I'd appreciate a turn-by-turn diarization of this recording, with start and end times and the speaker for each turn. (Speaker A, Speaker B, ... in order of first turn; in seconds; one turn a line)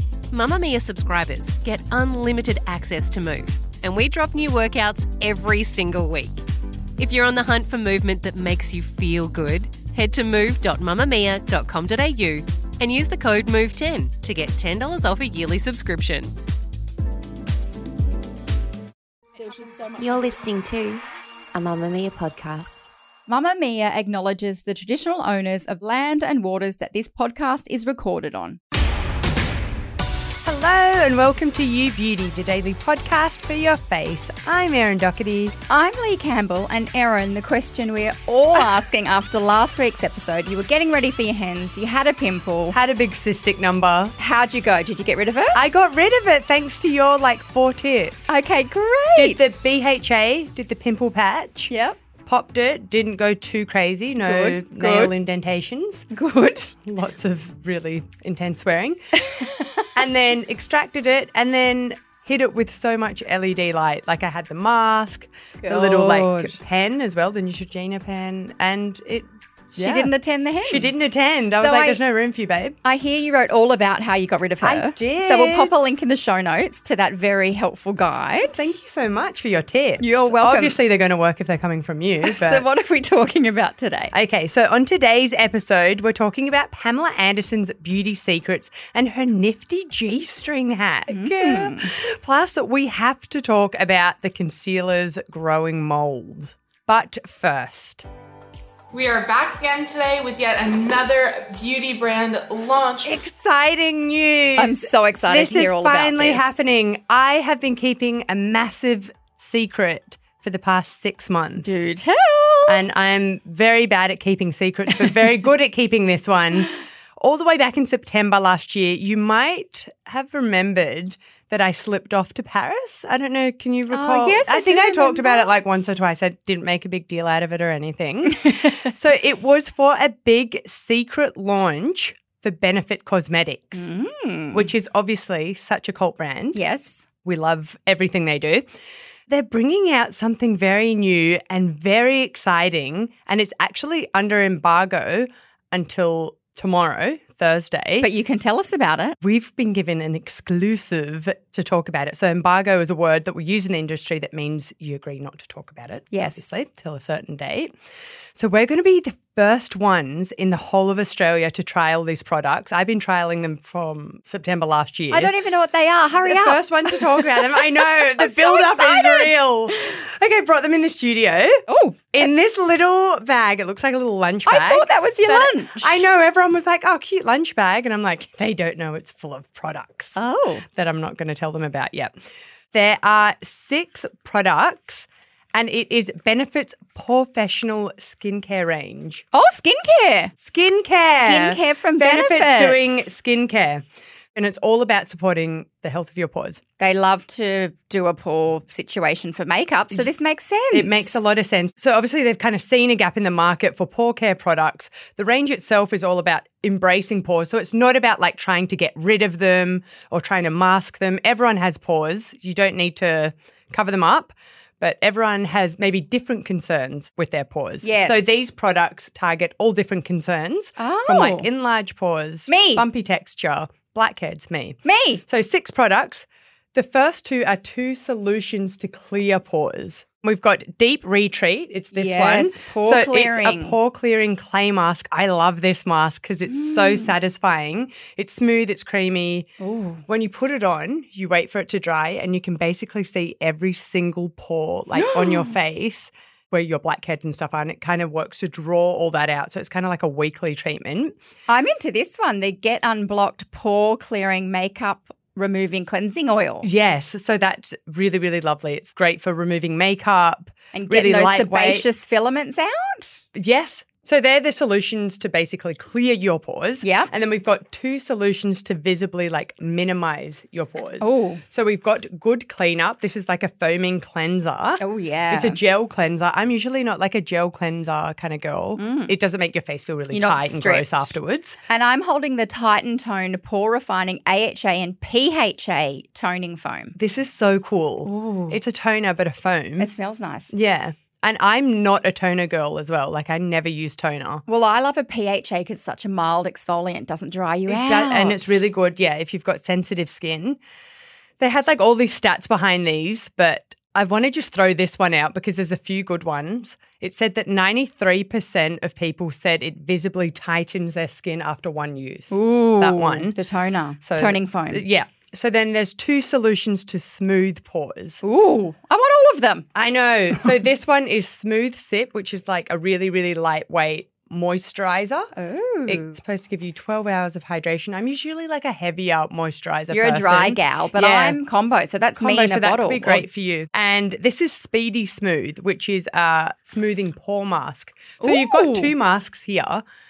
Speaker A: 0.3-6.4
Speaker A: 7.0-16.3
Speaker B: 20.0-22.9
Speaker C: 23.3-28.6
Speaker D: 30.4-35.6
Speaker C: 35.7-42.8
Speaker D: 42.7-44.1
Speaker C: 44.2-45.6
Speaker D: 45.5-48.3
Speaker C: 48.3-49.4
Speaker D: 49.1-51.7
Speaker C: 51.7-52.0
Speaker D: 52.3-56.1
Speaker C: 54.2-55.1
Speaker C: 56.1-56.8
Speaker D: 56.9-72.8
Speaker C: 59.3-59.6
Speaker C: 65.6-66.6
Speaker C: 69.7-71.0
Speaker C: 71.6-72.0
Speaker C: 72.8-78.8
Speaker D: 74.6-75.7
Speaker D: 78.4-82.7
Speaker C: 80.0-80.8
Speaker C: 82.2-84.1
Speaker D: 84.1-98.1
Speaker C: 91.1-91.9
Speaker E: 98.9-103.2
Speaker D: 103.0-111.8
Speaker C: 104.6-106.7
Speaker C: 111.6-112.8
Speaker D: 112.7-133.9
Speaker C: 123.9-125.6
Speaker C: 133.8-134.7
Speaker D: 134.5-136.6
Speaker C: 136.5-137.1
Speaker D: 137.2-138.7
Speaker D: 139.3-148.1
Speaker C: 148.0-149.2
Speaker D: 149.2-157.7
Speaker C: 156.1-156.6
Speaker D: 158.3-165.3
Speaker C: 165.1-169.3
Speaker D: 166.2-171.6
Speaker C: 171.7-172.3
Speaker D: 172.1-180.2
Speaker C: 174.5-176.1
Speaker C: 180.2-180.6
Speaker D: 180.7-182.1
Speaker D: 182.7-189.2
Speaker C: 189.3-190.3
Speaker D: 190.4-193.8
Speaker C: 191.2-193.1
Speaker D: 194.3-196.6
Speaker C: 196.8-201.2
Speaker D: 200.7-239.5
Speaker C: 217.8-218.4
Speaker C: 220.8-221.5
Speaker C: 222.5-222.9
Speaker C: 224.8-225.2
Speaker C: 231.9-233.8
Speaker C: 236.5-237.2
Speaker C: 239.6-240.0
Speaker D: 240.1-251.1
Speaker C: 244.9-245.5
Speaker C: 251.5-256.7
Speaker D: 256.6-261.9
Speaker C: 260.7-263.2
Speaker D: 263.4-281.6
Speaker C: 266.8-267.1
Speaker C: 271.0-271.4
Speaker C: 274.8-275.6
Speaker C: 278.8-279.1
Speaker C: 280.1-281.1
Speaker C: 281.7-287.0
Speaker D: 287.0-289.9
Speaker C: 288.1-288.6
Speaker C: 289.8-290.5
Speaker D: 290.5-294.4
Speaker C: 294.5-298.7
Speaker D: 297.7-300.6
Speaker D: 301.4-313.4
Speaker C: 312.3-314.8
Speaker D: 314.0-318.2
Speaker C: 318.2-319.7
Speaker D: 319.8-325.3
Speaker C: 325.4-326.2
Speaker D: 325.9-331.4
Speaker C: 329.9-333.3
Speaker D: 332.2-339.8
Speaker C: 338.2-338.9